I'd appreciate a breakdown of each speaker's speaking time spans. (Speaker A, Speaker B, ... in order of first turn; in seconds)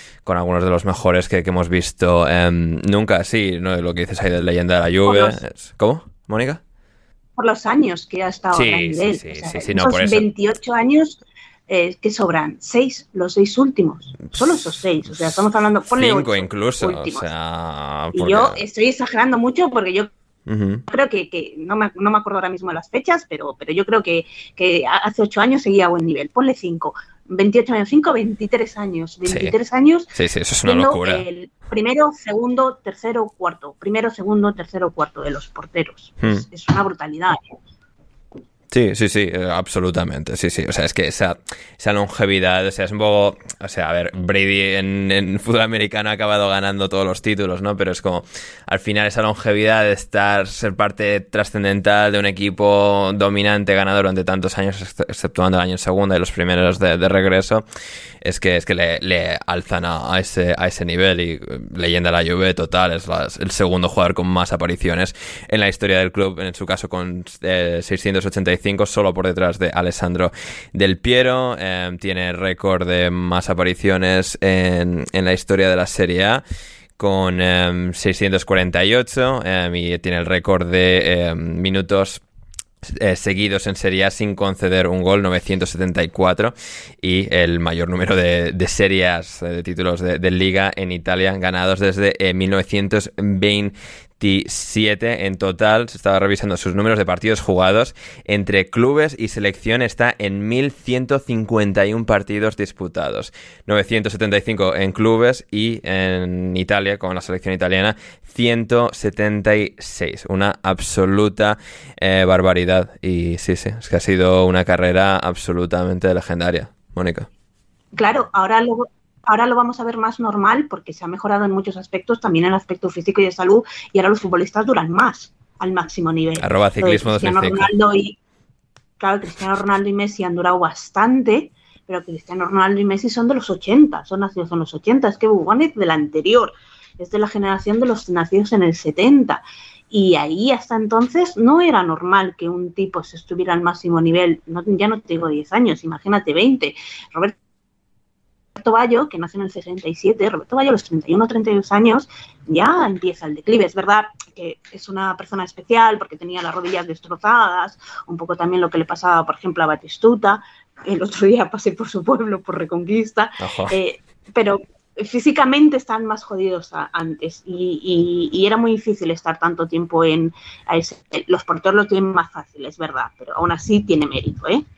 Speaker A: 0.2-6.6, 8.5-10.3, 15.9-18.6, 20.5-20.9, 29.3-29.6, 30.1-31.3, 38.7-57.6, 58.2-76.4, 77.0-82.2, 82.9-117.3, 126.4-127.7, 163.4-163.8
Speaker B: 5.0-5.4, 7.4-17.3, 18.1-20.1, 20.9-30.1, 30.6-37.4, 118.0-128.2, 129.0-147.3, 148.6-174.6